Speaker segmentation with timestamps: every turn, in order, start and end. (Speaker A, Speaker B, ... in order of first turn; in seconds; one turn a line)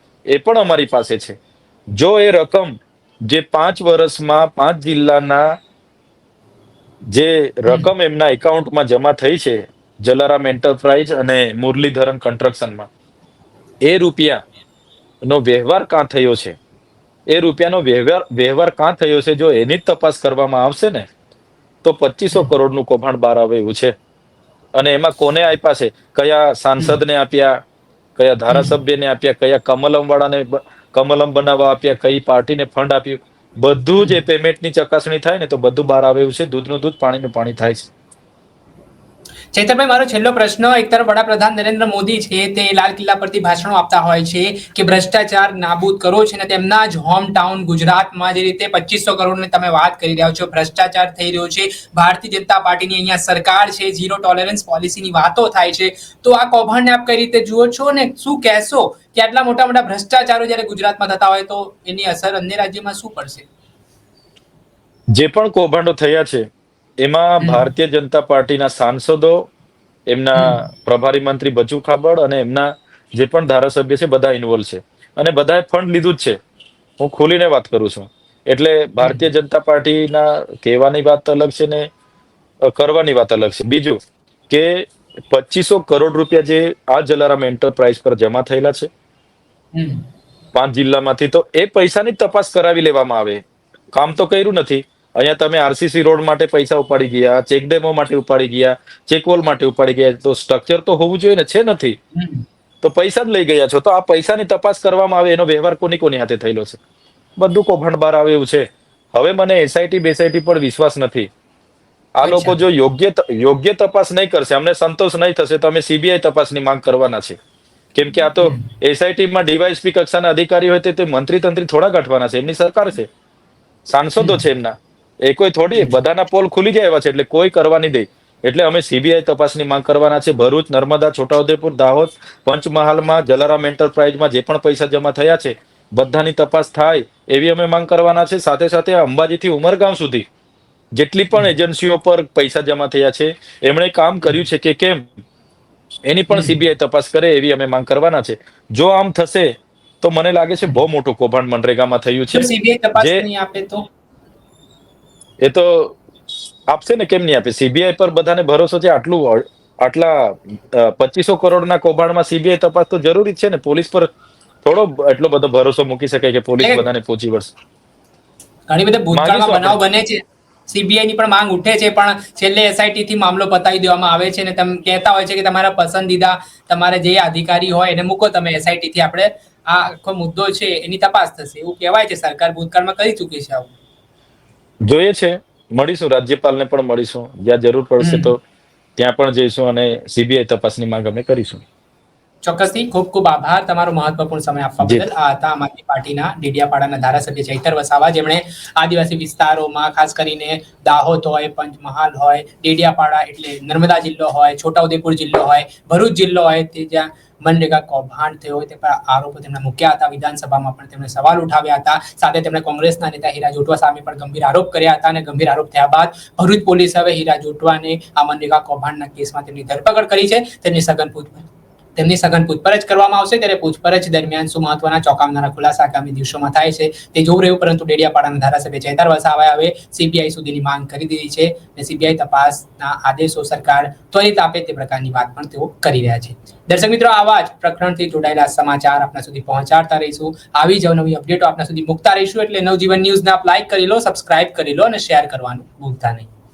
Speaker A: 0.3-1.4
Speaker A: 2.0-2.8
Speaker A: 3.3-5.5
Speaker A: 7.1-12.9
Speaker A: 13.8-14.4
Speaker A: 15.3-16.6
Speaker A: 17.3-21.1
Speaker A: 21.8-23.9
Speaker A: 24.8-27.6
Speaker A: 28.2-37.9
Speaker B: 28.5-28.8
Speaker B: 39.5-63.5
Speaker A: 65.1-66.4
Speaker A: 67.0-69.5
Speaker B: 67.4-67.7
Speaker A: 70.1-76.4
Speaker A: 77.0-81.9
Speaker A: 82.7-84.0
Speaker A: 84.5-88.9
Speaker B: 89.8-90.0
Speaker A: 90.5-93.4
Speaker A: 93.9-102.0
Speaker B: 102.2-102.4
Speaker A: 102.8-106.8
Speaker A: 107.4-111.3
Speaker A: 112.2-117.4
Speaker B: 112.2-112.6
Speaker A: 117.9-123.1
Speaker A: 123.9-140.2
Speaker A: 140.9-145.2
Speaker A: 146.1-149.5
Speaker B: 146.3-146.6
Speaker A: 150.0-153.2
Speaker B: 152.3-153.8
Speaker A: 155.4-156.0
Speaker A: 156.7-164.1
Speaker A: 164.6-167.5
Speaker B: 168.7-183.7
Speaker A: 169.1-169.8
Speaker A: 184.9-188.4
Speaker B: 188.0-188.3
Speaker A: 189.0-191.6
Speaker B: 192.4-246.3